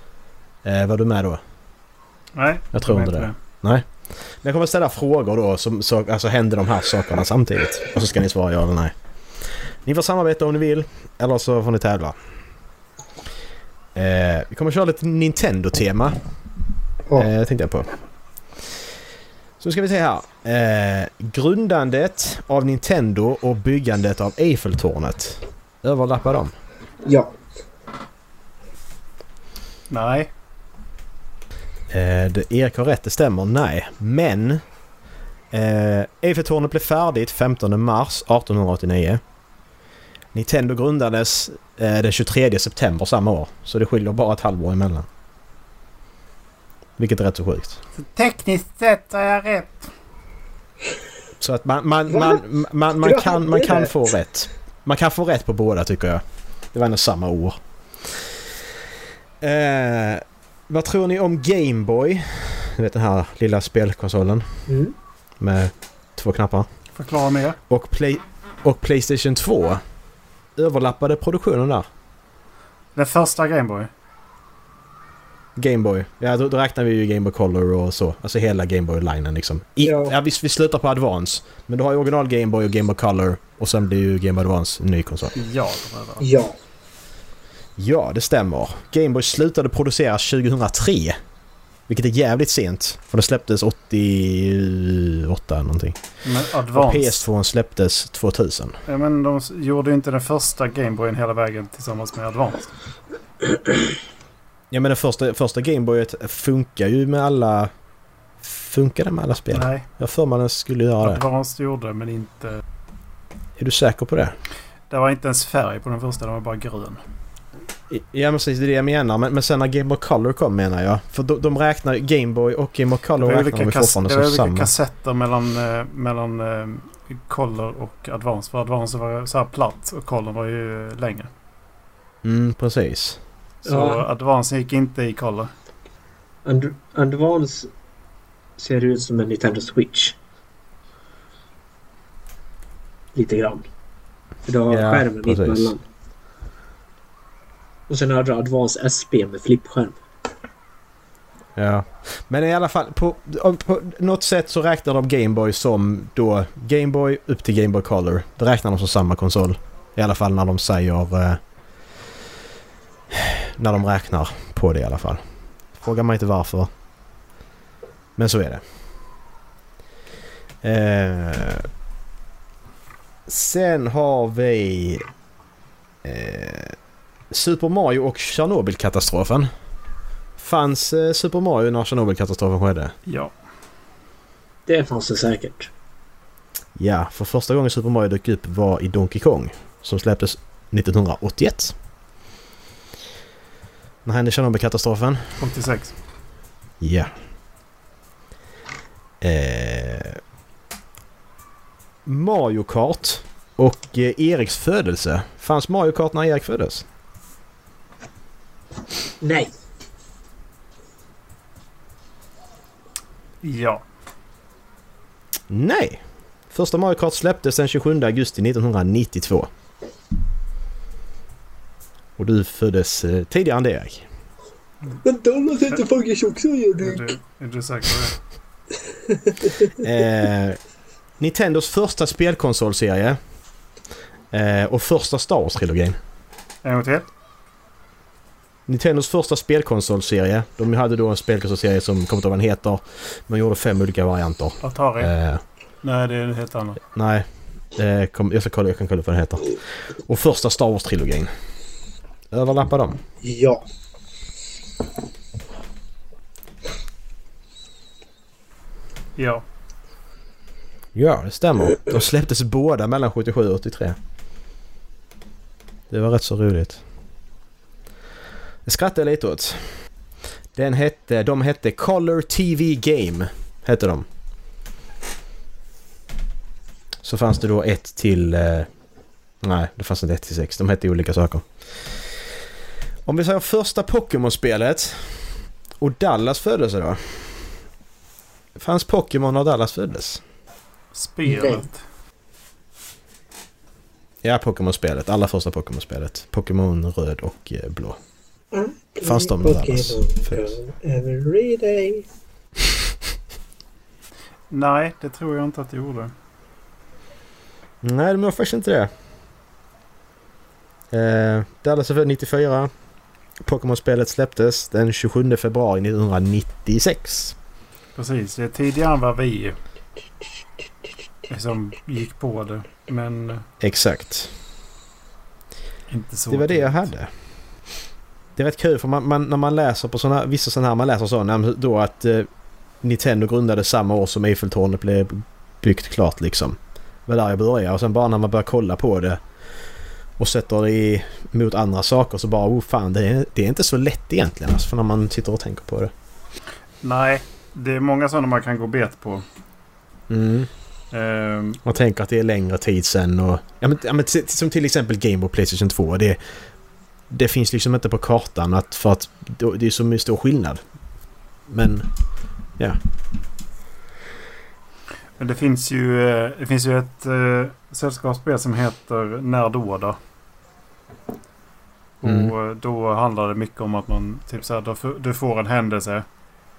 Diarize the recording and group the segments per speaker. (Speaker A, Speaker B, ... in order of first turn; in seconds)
Speaker A: 0.6-1.4, 2.7-8.9, 9.8-12.1, 13.9-16.1, 17.1-17.9, 19.6-26.5, 31.9-34.6, 35.5-39.2, 40.3-45.1, 47.0-47.8, 51.4-56.2, 56.7-57.6, 59.4-64.4, 65.4-66.7, 67.7-69.8, 70.5-71.9, 75.5-85.3, 87.8-91.2, 91.9-96.0, 96.7-98.8, 104.7-107.7, 108.4-111.2, 113.6-114.3, 117.9-124.7, 132.2-133.2, 144.7-145.7, 151.6-161.4, 163.1-165.2, 165.8-166.7, 168.2-168.6, 170.6-171.7, 173.3-175.1, 176.0-176.8, 177.3-179.5, 180.4-182.9, 186.8-191.7, 194.1-195.3, 196.8-197.1, 199.2-200.2, 202.1-206.9, 215.5-219.5, 222.2-224.1, 229.8-230.6, 231.2-233.2, 234.3-236.0, 238.7-245.4, 246.9-251.3, 252.3-253.0, 260.9-264.0, 265.9-266.8, 268.6-269.6, 270.6-274.1, 277.0-278.7, 279.4-281.4, 283.1-285.2, 285.8-287.4, 288.6-290.2, 294.2-298.0, 299.0-300.6, 307.8-308.9, 310.9-312.7, 313.4-317.3, 323.6-324.3, 326.3-327.1, 328.4-332.3, 332.8-339.2, 340.2-345.9, 350.1-350.5, 351.6-356.2, 357.1-360.6, 361.5-361.9, 372.0-372.3
Speaker B: 2.4-3.3, 29.9-30.3, 48.0-49.9, 66.9-67.6, 73.0-73.9, 85.3-86.3, 96.2-97.2, 98.9-102.7, 109.5-109.9, 111.0-112.6, 114.9-117.0, 123.2-131.3, 133.6-135.5, 183.1-183.3, 195.4-195.9, 213.4-213.8, 226.8-228.2, 236.6-237.1, 244.6-245.1, 245.8-246.8, 259.2-259.4, 290.9-291.8, 304.5-306.1, 317.9-319.6, 321.3-323.4, 325.9-326.9, 346.8-349.2, 350.9-351.6, 365.2-370.0, 372.0-376.1
Speaker C: 27.1-27.3, 52.1-52.4, 53.0-54.1, 64.7-64.9, 79.8-80.1, 86.2-86.5, 133.6-134.0, 136.4-137.7, 138.6-140.2, 143.1-143.7, 144.4-145.8, 147.9-150.0, 184.7-185.7, 209.2-209.5, 225.0-227.1, 228.9-229.9, 253.2-253.6, 291.2-291.6, 298.5-302.1